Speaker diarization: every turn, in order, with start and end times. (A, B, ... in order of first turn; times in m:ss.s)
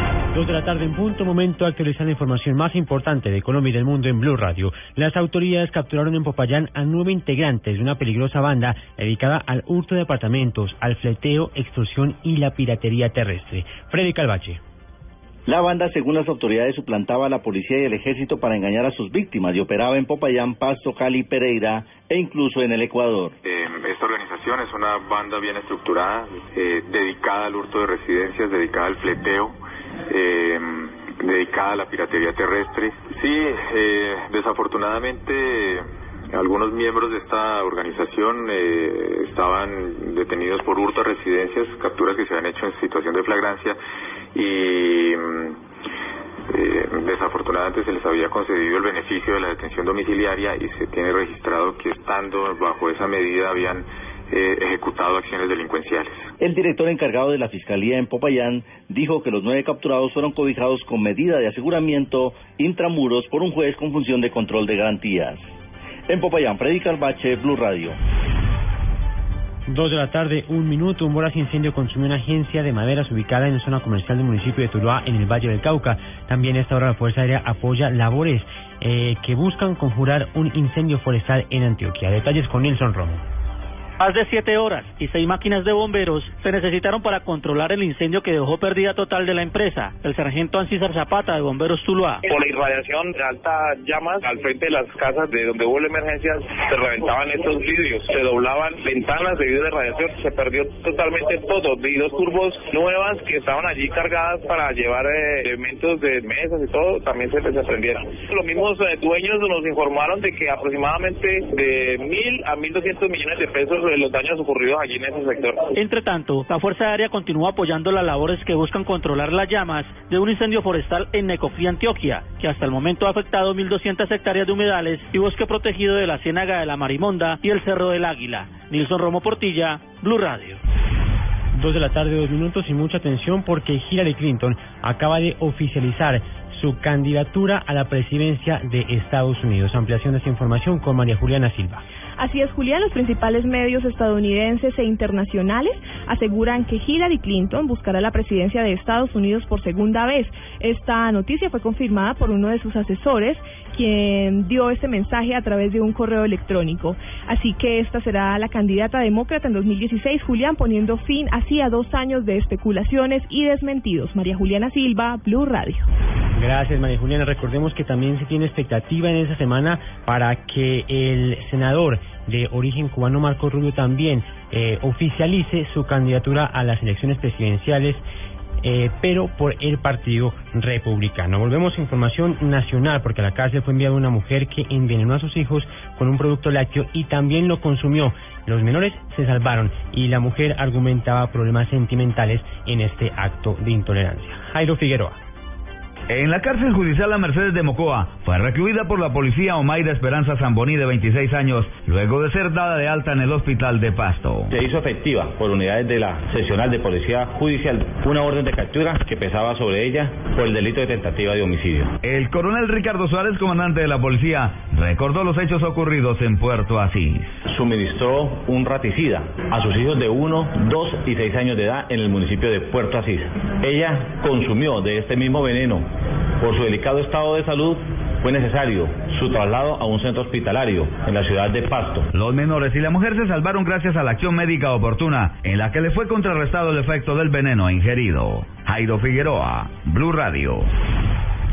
0:00.3-0:14.6 A
0:15.5-0:23.3 B
0:23.4-0:29.6 C
0:30.1-0:43.8 C
0:44.4-0:45.6 C
0:46.5-0:56.3 C
0:56.4-1:05.5 B
1:06.1-1:08.0 B
1:09.7-1:23.2 A
1:24.0-1:32.2 D
1:32.2-1:55.7 E
1:55.8-2:10.6 D
2:11.6-2:21.8 A
2:22.2-2:45.9 F
2:46.4-2:58.0 A
2:58.6-3:15.2 A
3:16.1-3:24.5 G
3:24.5-3:31.9 H
3:32.0-3:37.4 G
3:37.5-3:45.8 H
3:46.4-3:52.1 H
3:52.1-4:00.7 G